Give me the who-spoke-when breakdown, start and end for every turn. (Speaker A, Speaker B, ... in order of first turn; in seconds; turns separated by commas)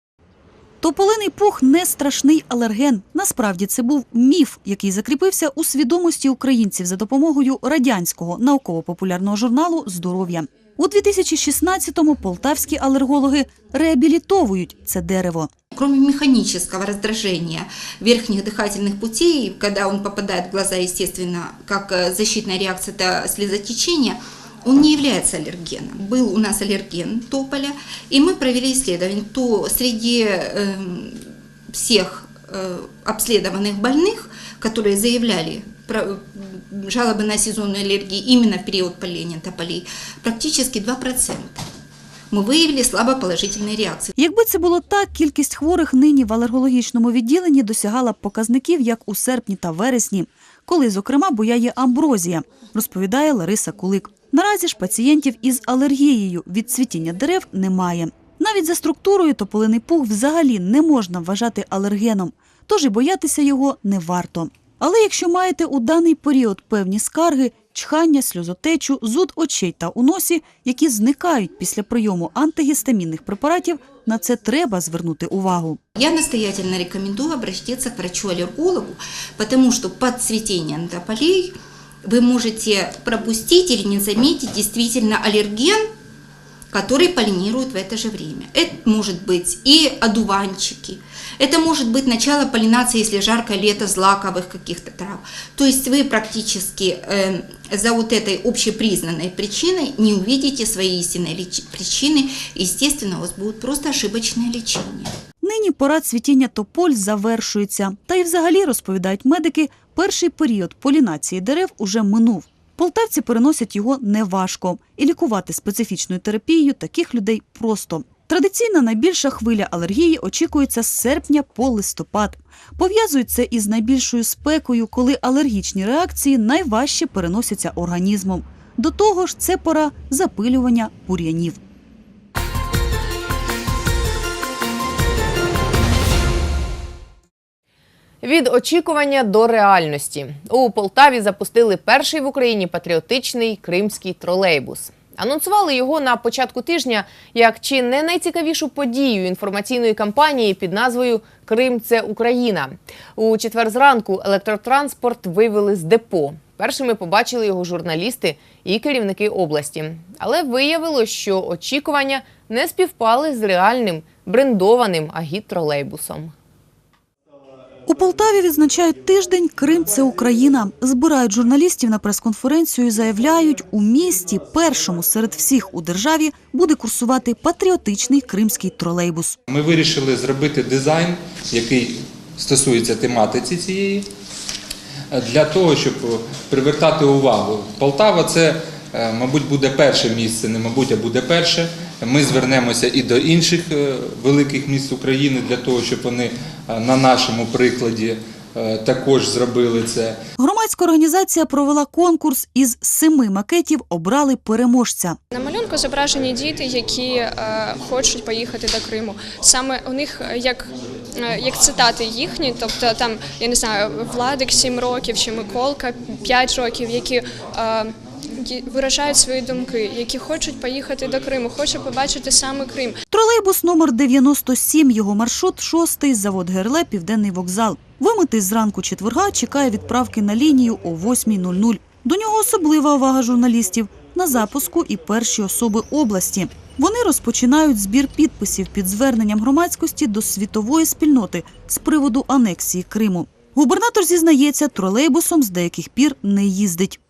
Speaker A: 0.8-15.5, Speaker B: 15.8-41.6, Speaker B: 42.3-44.1, Speaker A: 44.2-75.8, Speaker B: 76.0-85.9, Speaker B: 86.7-105.1, Speaker A: 105.4-131.6, Speaker C: 138.2-166.3, Speaker A: 167.9-179.4, Speaker D: 179.5-184.1, Speaker D: 185.1-200.2, Speaker A: 200.4-205.2, Speaker E: 205.3-223.0, Speaker A: 223.1-247.0